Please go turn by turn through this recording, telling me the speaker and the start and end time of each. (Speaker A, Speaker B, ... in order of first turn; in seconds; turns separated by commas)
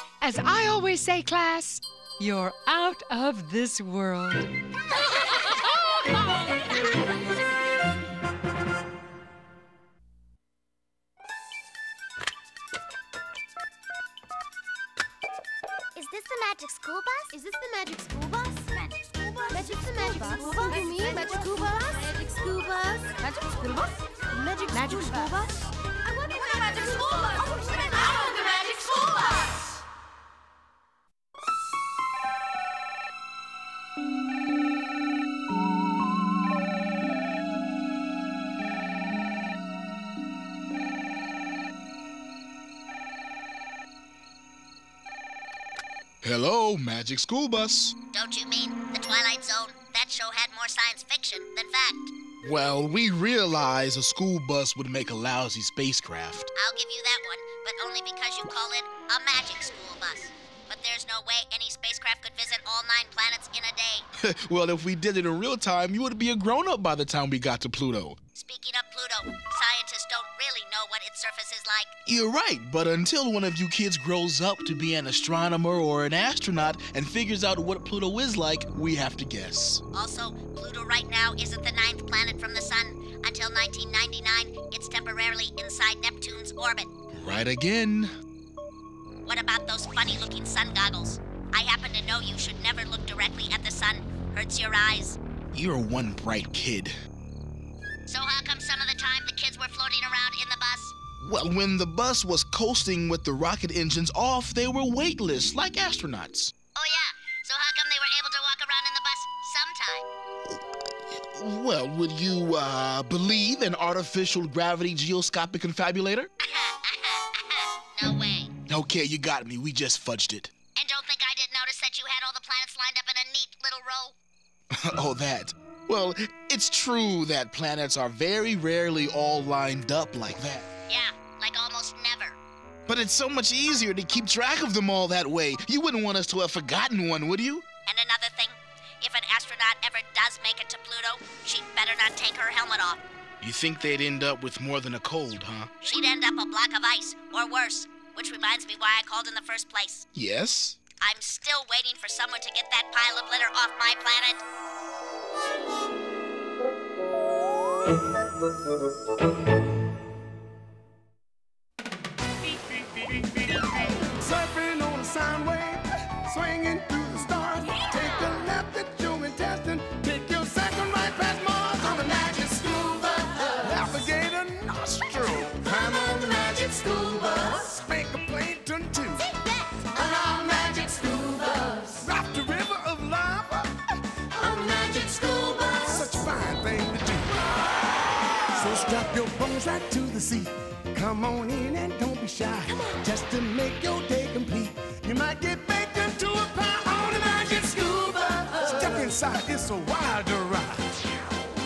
Speaker A: 0.2-4.5, Speaker B: 15.9-17.4, Speaker C: 17.3-25.5, Speaker B: 19.5-22.1, Speaker B: 24.7-25.4, Speaker C: 26.1-29.4, Speaker D: 46.2-47.9, Speaker E: 48.1-52.1, Speaker D: 52.4-56.5, Speaker E: 56.5-64.0, Speaker D: 64.2-68.2, Speaker E: 68.3-71.9, Speaker D: 72.0-79.8, Speaker E: 79.9-86.9, Speaker D: 87.1-88.1, Speaker E: 89.2-95.2, Speaker D: 95.5-96.9, Speaker E: 98.1-101.0, Speaker D: 101.1-106.5, Speaker E: 106.7-110.0, Speaker D: 111.2-116.3, Speaker E: 116.4-118.5, Speaker D: 118.7-120.5, Speaker E: 120.8-124.1, Speaker D: 124.8-130.7, Speaker E: 130.9-132.4, Speaker D: 132.9-137.7, Speaker E: 137.8-143.0, Speaker D: 143.4-145.7, Speaker E: 145.8-150.1, Speaker D: 150.1-150.8, Speaker E: 151.0-154.4, Speaker F: 163.2-179.3, Speaker B: 179.2-179.8, Speaker F: 179.9-183.8, Speaker F: 184.3-187.4, Speaker F: 188.6-200.8